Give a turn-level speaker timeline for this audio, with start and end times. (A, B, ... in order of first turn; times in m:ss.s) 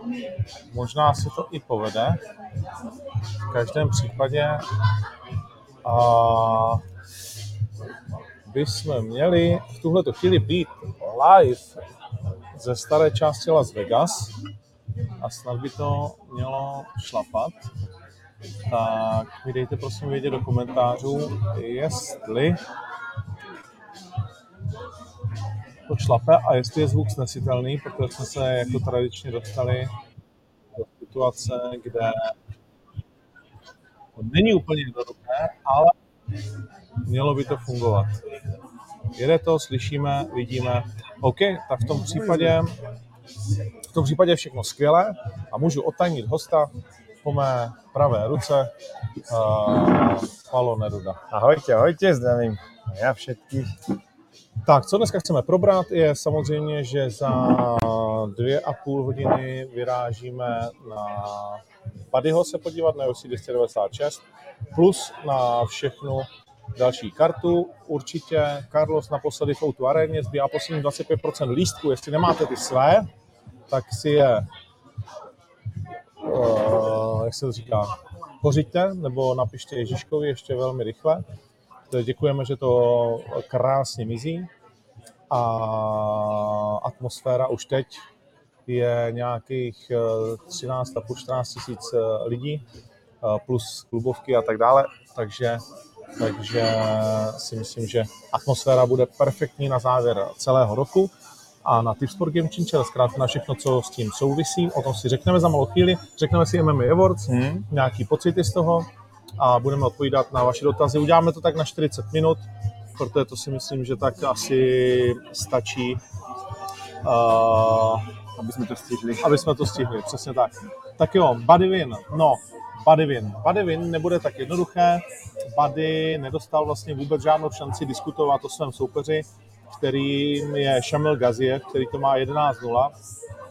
0:00.7-0:02.2 A
0:03.5-0:04.6 A
0:05.8-0:06.8 A
0:08.5-0:11.8 A
0:12.6-0:14.4 A
0:15.2-0:17.7 A
0:18.7-0:22.6 A
0:25.9-0:29.9 A
0:30.8-0:32.3 A
0:34.2-0:35.9 A
0:37.0-0:38.2 A
0:39.2-0:42.8 A
0:41.8-0:42.6 B
0:43.9-0:46.7 A
0:47.2-0:48.7 A
0:49.3-0:51.2 A
0:51.3-0:53.8 B
0:54.6-1:04.2 A
1:04.7-1:13.1 A
1:13.7-1:14.5 A
1:16.2-1:21.2 A
1:21.9-1:24.5 A
1:25.3-1:28.0 A
1:28.7-1:32.6 A
1:33.2-1:35.6 A
1:36.2-1:41.1 A
1:41.6-1:48.9 A
1:47.3-1:47.7 B
1:49.4-1:52.4 A
1:53.0-1:56.0 A
1:57.0-1:58.1 A
1:58.4-1:59.4 B
1:59.2-2:05.0 A
2:05.6-2:12.9 A